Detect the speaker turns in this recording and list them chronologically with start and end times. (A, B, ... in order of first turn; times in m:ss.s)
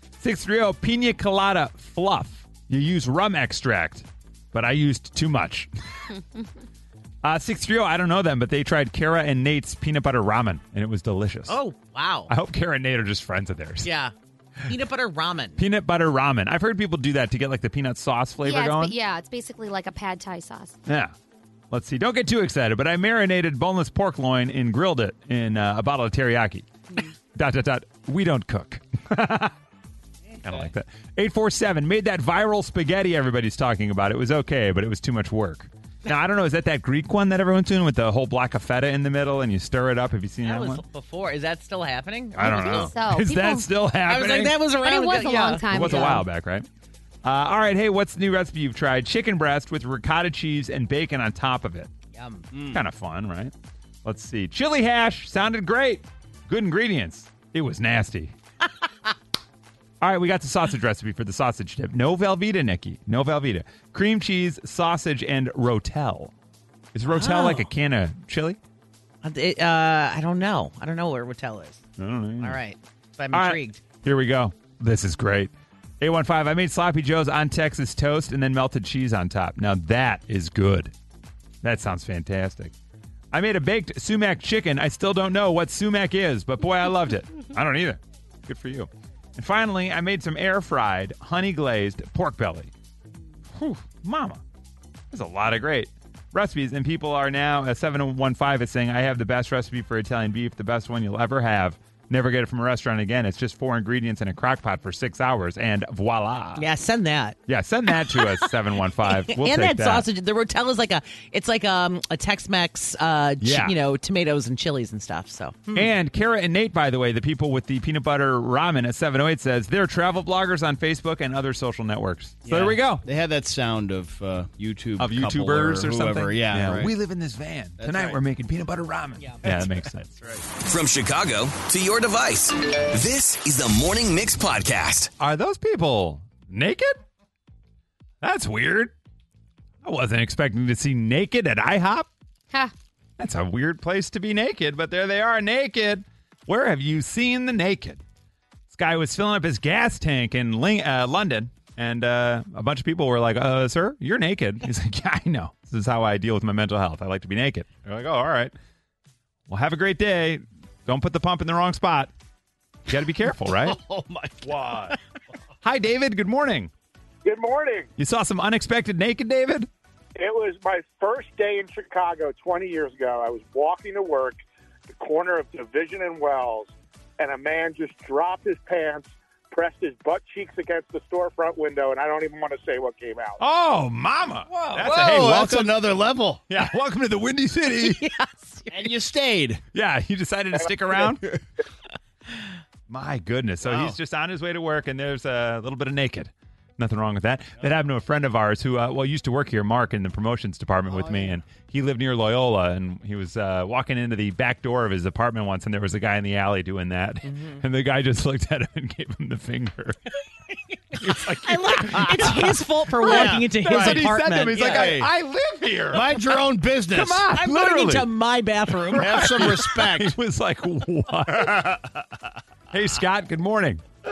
0:00.2-0:05.7 A
0:07.2-0:11.6 A
0:11.5-0:12.3 B
0:12.3-0:13.9 A
0:13.8-0:14.1 B
0:14.7-0:15.6 B
0:15.6-0:19.0 A
0:18.4-0:20.8 C
0:20.8-0:21.1 A
0:21.7-0:26.7 A
0:27.3-0:29.5 A
0:30.3-0:30.7 D
0:30.4-0:40.8 A
0:40.4-0:42.9 B
0:42.3-0:44.6 A
0:42.4-0:43.7 C
0:44.0-0:46.1 B
0:44.8-0:46.2 C
0:45.7-0:46.6 A
0:47.2-0:51.9 A
0:52.1-0:52.4 B
0:52.5-0:52.8 D
0:52.7-0:53.5 A
0:54.0-0:58.3 A
1:00.0-1:06.3 A
1:06.9-1:08.6 A
1:07.1-1:07.7 B
1:09.2-1:11.8 B
1:12.0-1:12.6 A
1:12.4-1:13.8 B
1:13.3-1:20.9 A
1:21.6-1:22.7 A
1:23.3-1:32.7 A
1:33.5-1:34.4 A
1:35.1-1:46.6 A
1:46.6-1:47.4 B
1:47.5-1:50.0 A
1:47.9-1:48.5 B
1:49.0-1:55.9 B
1:53.4-1:53.7 A
1:55.7-2:03.0 A
2:02.4-2:06.9 D
2:05.0-2:10.1 A
2:07.8-2:08.2 D
2:09.4-2:10.4 D
2:10.6-2:15.1 E
2:15.2-2:17.0 A
2:18.2-2:18.9 A
2:19.8-2:22.1 A
2:23.2-2:28.0 A
2:28.7-2:38.5 A
2:39.5-2:42.1 A
2:42.9-2:43.8 A
2:43.6-2:45.0 D
2:45.6-2:46.7 A
2:47.2-2:47.9 F
2:48.0-2:49.7 A
2:50.2-3:03.4 F
3:03.4-3:05.8 A
3:04.5-3:04.9 B
3:04.7-3:06.4 D
3:06.5-3:08.0 A
3:07.8-3:08.9 B
3:08.7-3:09.6 D
3:09.7-3:11.2 A
3:11.1-3:11.4 D
3:12.9-3:30.0 A
3:13.6-3:14.0 D
3:20.9-3:21.4 D
3:31.0-3:35.0 B
3:31.0-3:36.2 A
3:32.0-3:32.4 D
3:33.0-3:35.1 D
3:35.9-3:37.2 D
3:36.9-3:38.1 A
3:37.3-3:39.5 B
3:38.9-3:41.8 A
3:38.9-3:40.1 D
3:42.7-3:43.8 A